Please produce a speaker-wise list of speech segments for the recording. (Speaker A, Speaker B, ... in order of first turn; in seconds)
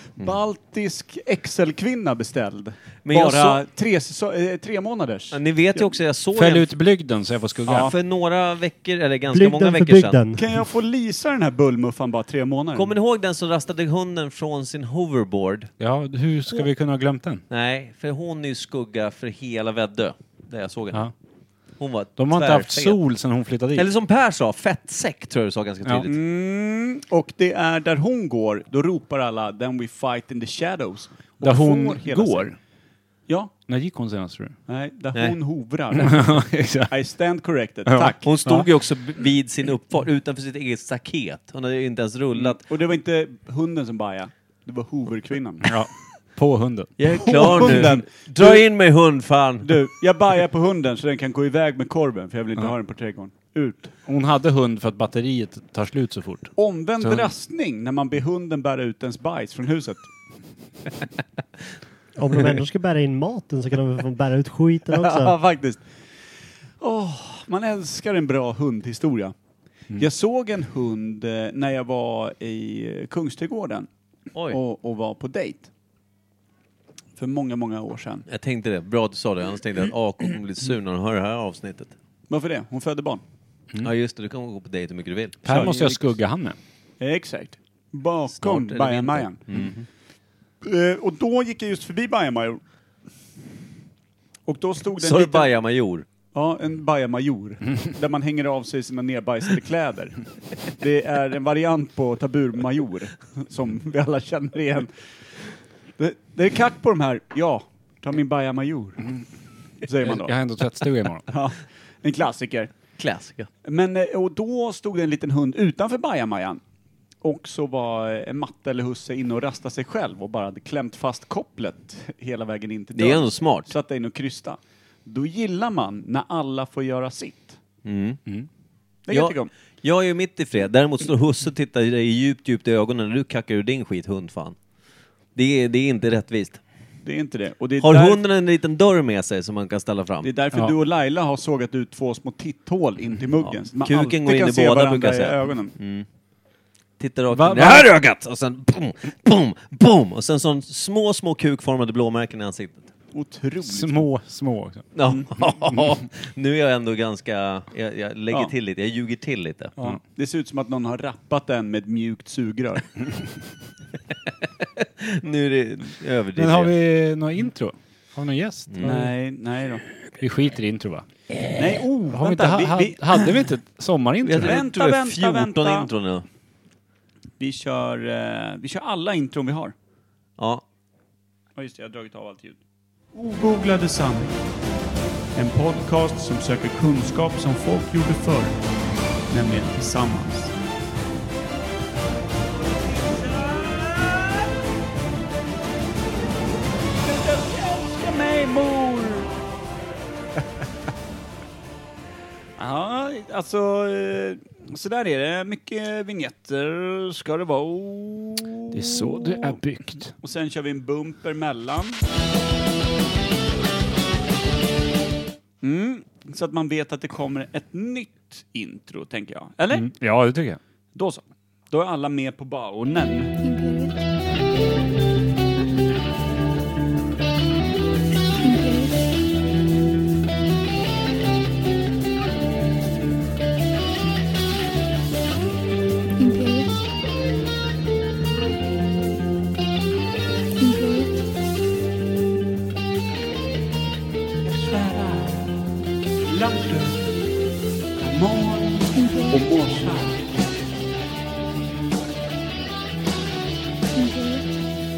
Speaker A: 0.2-5.9, 7.7-7.9, 10.3-12.9, 26.1-32.5, 34.7-38.2, 42.4-45.7, 47.2-48.6, 49.6-54.0, 56.5-60.1, 64.9-65.8, 66.8-69.3, 70.0-73.9, 74.5-75.7, 77.2-78.2, 82.3-83.2, 85.4-86.0, 87.0-89.5, 90.6-92.6, 94.5-95.5, 96.3-104.9, 106.0-109.0, 109.8-110.4, 111.3-112.7, 113.6-116.6, 117.2-127.6, 129.1-129.5, 137.0-138.2, 140.2-145.7, 153.1-154.1, 159.8-162.9, 168.8-169.8, 171.5-173.5, 174.4-175.9, 177.4-179.7, 181.6-182.6, 183.1-184.3, 185.3-188.6, 189.3-190.5, 193.0-194.3, 197.0-199.3, 202.6-209.6, 210.2-212.0, 215.6-219.9, 220.9-223.3, 244.4-245.6, 246.2-247.0, 248.0-250.4
Speaker B: 3.0-3.6, 5.3-6.7, 7.8-10.2, 12.7-15.7, 17.5-21.0, 21.8-23.0, 23.7-26.2, 38.2-42.6, 47.0-49.7, 74.3-74.6, 78.3-81.9, 83.8-85.7, 88.3-89.8, 95.0-96.0, 113.0-113.5, 122.9-123.7, 127.8-128.2, 129.1-134.6, 135.3-136.6, 137.8-140.3, 143.4-146.1, 147.0-152.9, 154.9-159.7, 164.6-166.7, 168.7-169.0, 174.2-176.2, 180.4-180.6
Speaker C: 6.3-7.9, 15.8-17.4, 22.2-23.9, 31.4-32.5, 33.7-34.5, 35.9-36.9, 37.9-38.7, 45.6-46.9, 54.1-56.5, 57.0-57.3, 85.4-86.6, 110.0-111.2, 147.3-147.9, 153.7-154.9, 166.3-169.1, 170.2-171.1, 172.1-174.6, 208.7-210.1, 219.7-220.6
Speaker D: 9.3-10.5, 62.2-65.3
Speaker E: 223.4-224.0, 228.4-229.1, 236.2-236.9, 240.6-241.2, 248.9-249.5, 253.9-254.6